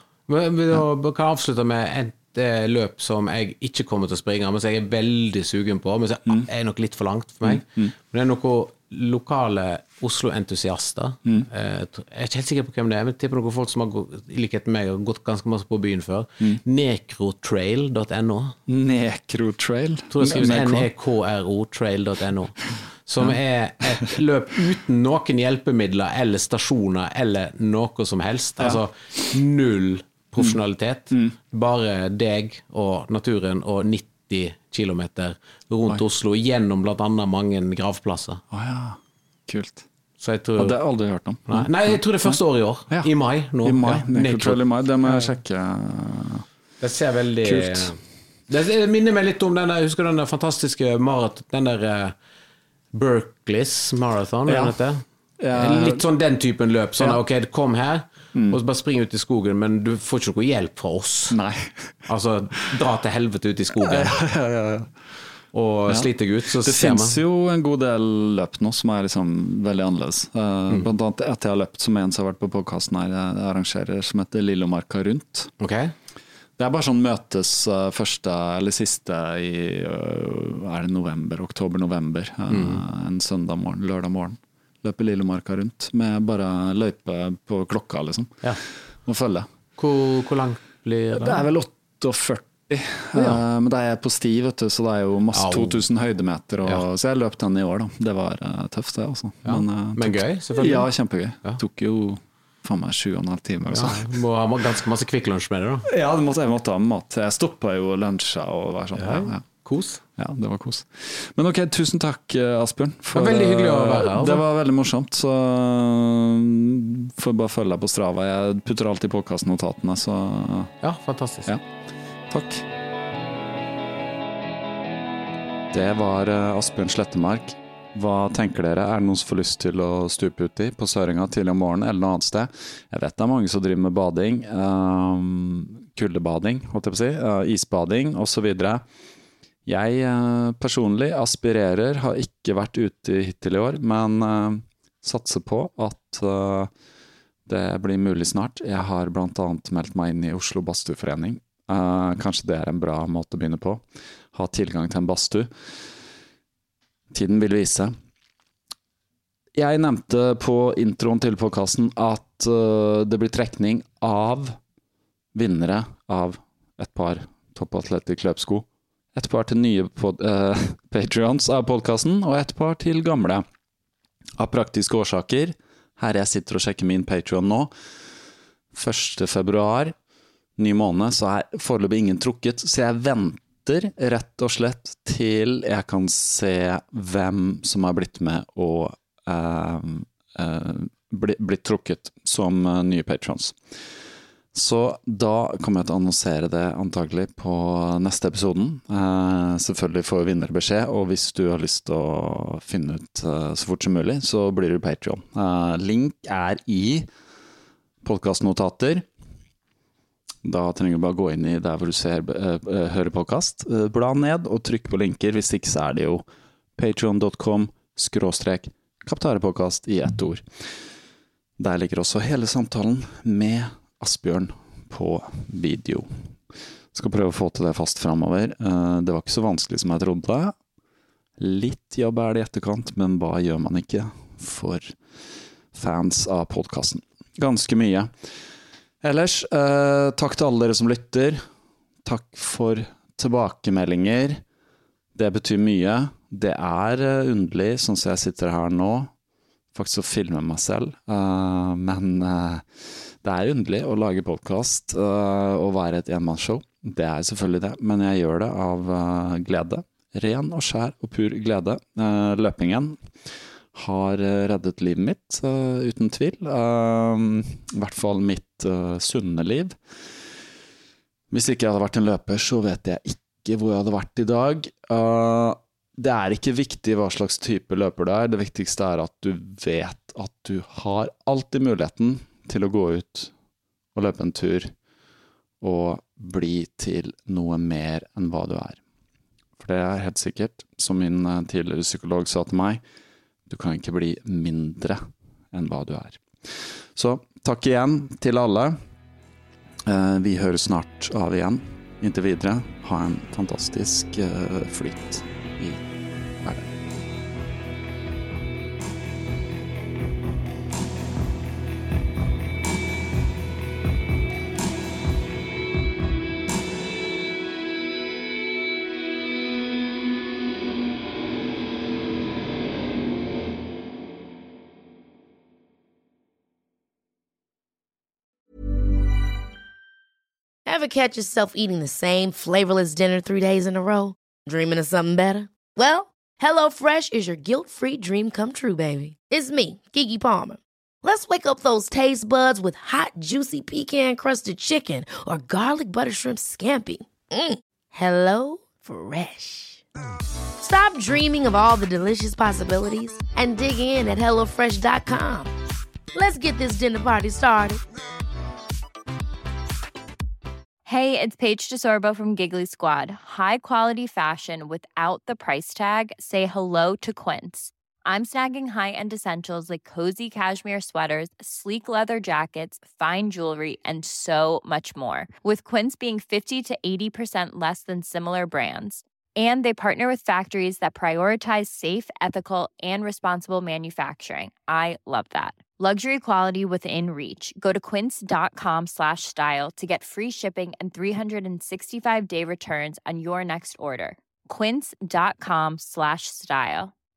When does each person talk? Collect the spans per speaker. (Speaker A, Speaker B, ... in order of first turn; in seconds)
Speaker A: 0.3-18.5, 20.1-38.4, 40.2-40.8, 41.5-45.3, 46.8-48.0, 48.5-52.1, 52.9-55.0, 55.5-61.4, 62.0-64.2, 65.5-67.2, 75.6-75.9, 82.5-82.8, 89.8-91.4, 93.1-93.4, 95.3-95.8, 99.4-100.9, 103.7-105.9, 108.9-110.0, 113.1-114.4, 120.8-121.5
Speaker B: 7.4-7.9, 18.7-20.9, 38.5-39.8, 40.6-43.1, 43.6-46.4, 47.4-48.0, 54.5-54.8, 55.4-56.0, 58.3-58.6, 61.3-62.0, 63.7-64.9, 65.9-75.5, 76.6-88.4, 89.0-89.5, 91.1-104.1, 105.8-109.4, 110.2-120.7, 122.3-122.7, 125.7-138.8, 139.7-146.7, 147.4-153.8, 154.3-155.5, 157.1-157.9, 159.5-164.6, 165.3-173.4, 174.4-177.7, 178.7-179.9, 180.6-193.6, 194.5-207.1, 208.0-209.1, 210.4-220.4, 221.6-226.3, 226.9-230.5, 231.4-234.9, 235.7-238.1, 239.0-241.4, 242.0-244.4, 245.1-249.1, 249.7-263.0, 263.7-269.8, 271.3-283.3, 283.9-284.7, 285.6-288.8, 289.6-292.8, 293.5-298.8, 299.9-305.8, 306.4-306.7
Speaker C: 330.6-349.8, 350.6-355.5, 356.1-357.8
Speaker D: 360.9-396.9